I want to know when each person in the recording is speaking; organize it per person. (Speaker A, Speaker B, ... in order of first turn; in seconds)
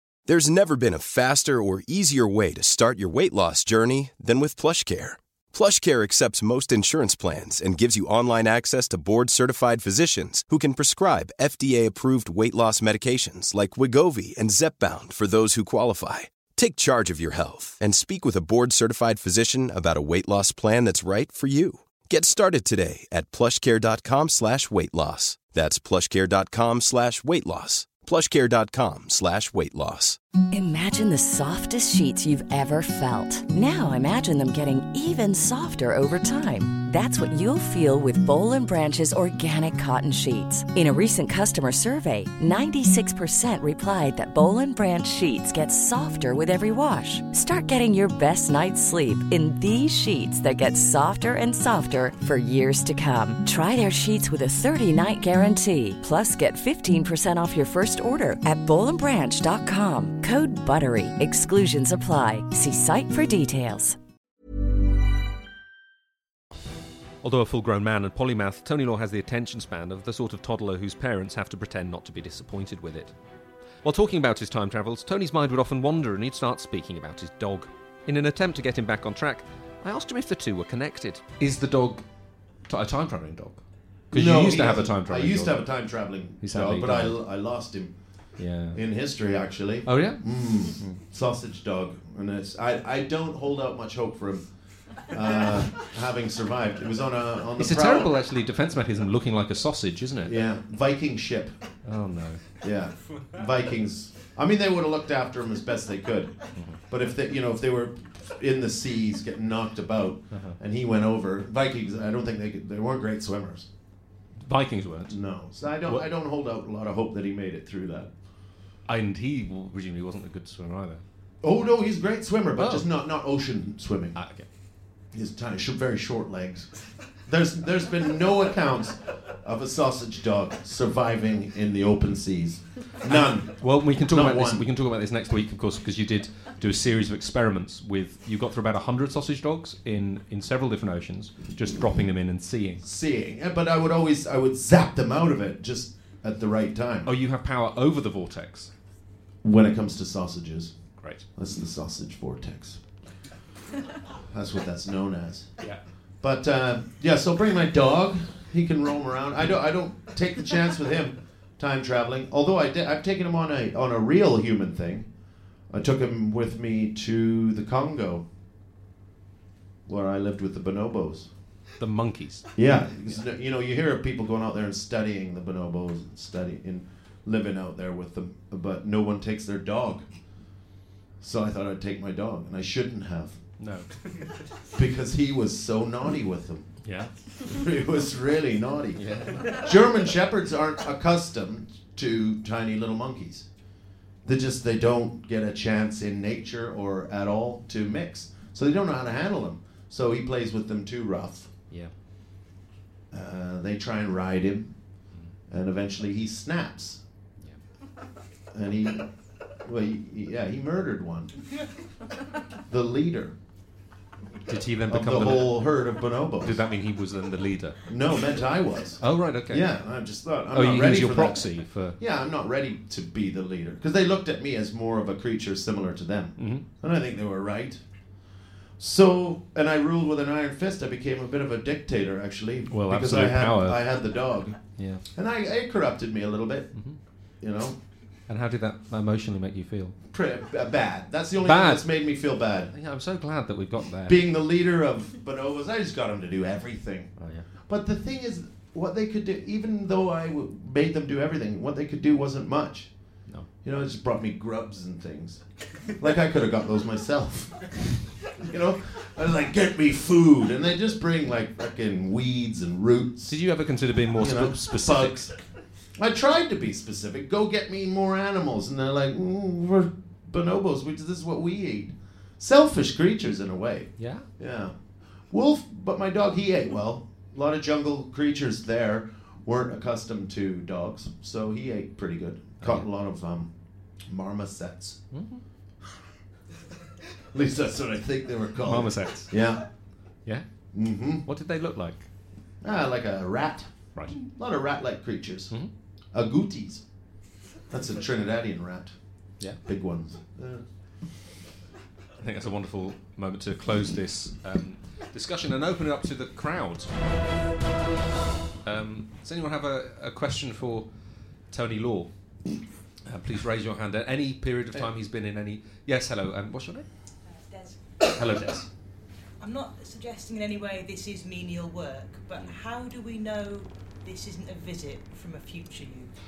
Speaker A: 0.3-30.2
Speaker B: 30.5-64.0
Speaker C: 67.2-73.1, 73.8-82.0, 82.7-85.6, 86.4-87.2, 88.4-88.8, 89.8-91.0, 97.6-100.4, 101.8-102.6, 114.4-115.2, 118.9-121.0, 122.6-122.9, 124.2-124.5, 133.1-142.8, 147.0-148.7, 151.0-151.2, 171.8-172.5, 183.6-183.9, 186.8-187.1, 188.9-189.7, 214.5-215.8, 216.4-217.9, 219.0-219.7, 220.5-222.0, 226.4-226.7, 232.7-233.8, 234.8-235.0, 238.3-240.0, 241.4-241.9, 242.7-244.2, 247.2-247.4, 263.2-265.3, 274.0-274.3, 282.6-282.9, 285.1-285.4, 288.6-289.4, 291.2-292.0, 302.2-306.9, 308.6-310.9, 311.5-312.1, 313.1-316.9, 318.0-318.7
Speaker D: 84.1-87.9, 88.7-94.5, 95.0-98.1, 100.2-101.5, 102.6-106.3, 106.9-113.7, 115.1-118.1, 121.4-124.2, 125.1-126.7, 127.2-133.6, 134.1-134.6, 142.8-147.1, 149.4-150.7, 151.3-152.8, 154.3-155.5, 156.2-165.1, 165.7-168.2, 169.9-171.3, 172.6-180.1, 181.2-183.4, 184.7-186.7, 187.4-193.5, 194.2-201.5, 203.1-204.7, 205.5-207.0, 208.5-209.1, 209.6-211.3, 212.7-213.3, 214.9-216.6, 217.9-221.4, 222.0-227.8, 228.8-234.6, 235.1-236.7, 237.4-237.8, 240.1-242.7, 244.1-247.1, 247.7-252.9, 253.6-257.8, 258.3-263.3, 264.2-265.3, 266.0-274.7, 275.3-283.5, 284.1-285.0, 287.3-289.6, 290.7-291.2, 292.6-295.5, 296.1-296.8, 297.7-298.9, 299.6-300.6
Speaker E: 317.4-317.9, 319.4-326.1